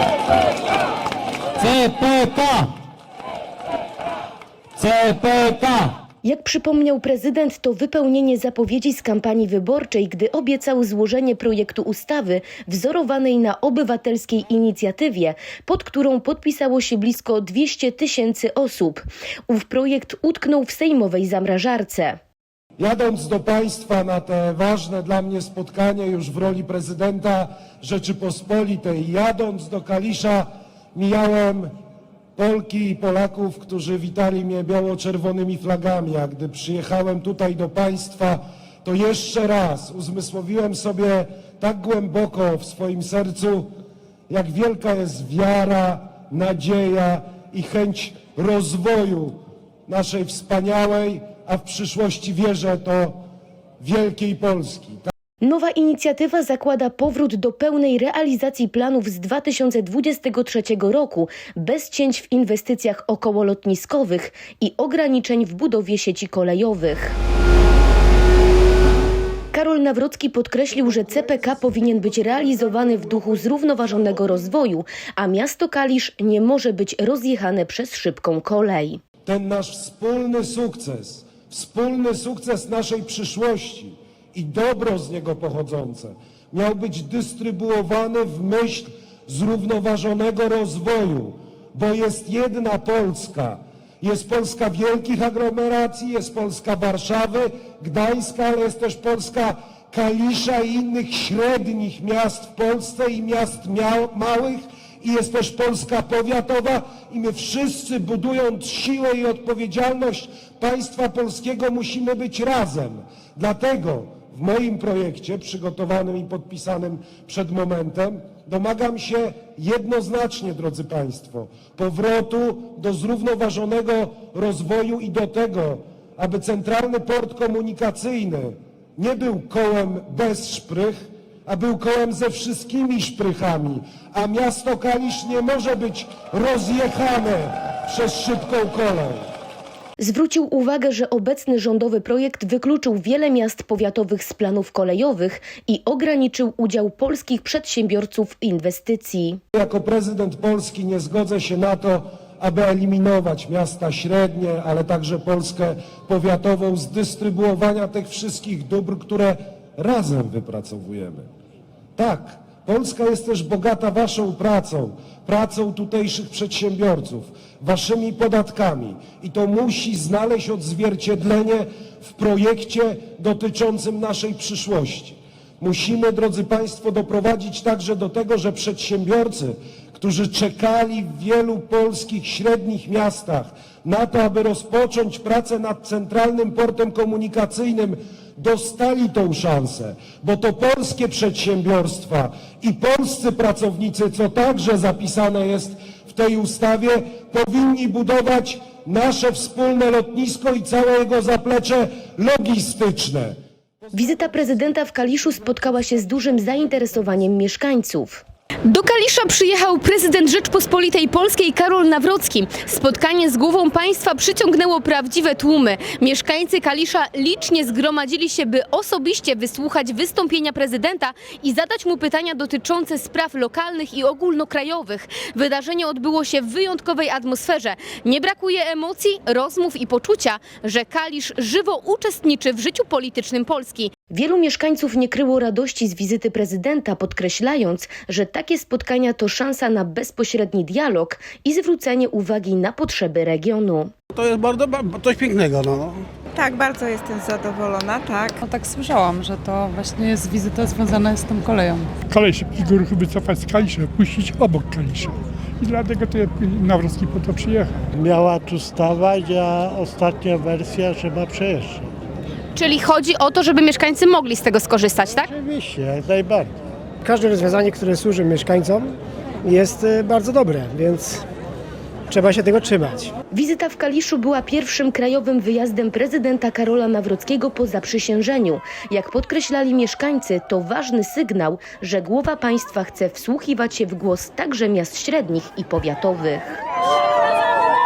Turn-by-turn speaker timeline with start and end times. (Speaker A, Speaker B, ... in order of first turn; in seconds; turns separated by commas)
Speaker A: 1.6-2.7, Speaker A: 4.8-6.0, Speaker B: 6.2-22.2, Speaker C: 22.8-31.7, Speaker C: 32.4-43.7, Speaker C: 44.3-49.4, Speaker C: 49.9-53.2, Speaker C: 53.8-55.1, Speaker B: 55.4-67.2, Speaker B: 69.5-79.0, Speaker C: 79.2-139.3, Speaker B: 140.0-149.4, Speaker C: 149.5-161.3, Speaker C: 162.0-203.3, Speaker B: 203.9-208.2, Speaker D: 208.7-233.9, Speaker B: 234.1-243.9, Speaker E: 244.1-246.1, Speaker F: 246.3-248.4, Speaker G: 248.4-251.9, Speaker H: 252.1-257.8, Speaker I: 257.9-261.9, Speaker D: 262.6-265.3, Speaker I: 265.3-266.5, Speaker J: 267.0-271.2, Speaker J: 272.1-273.1, Speaker B: 273.3-286.6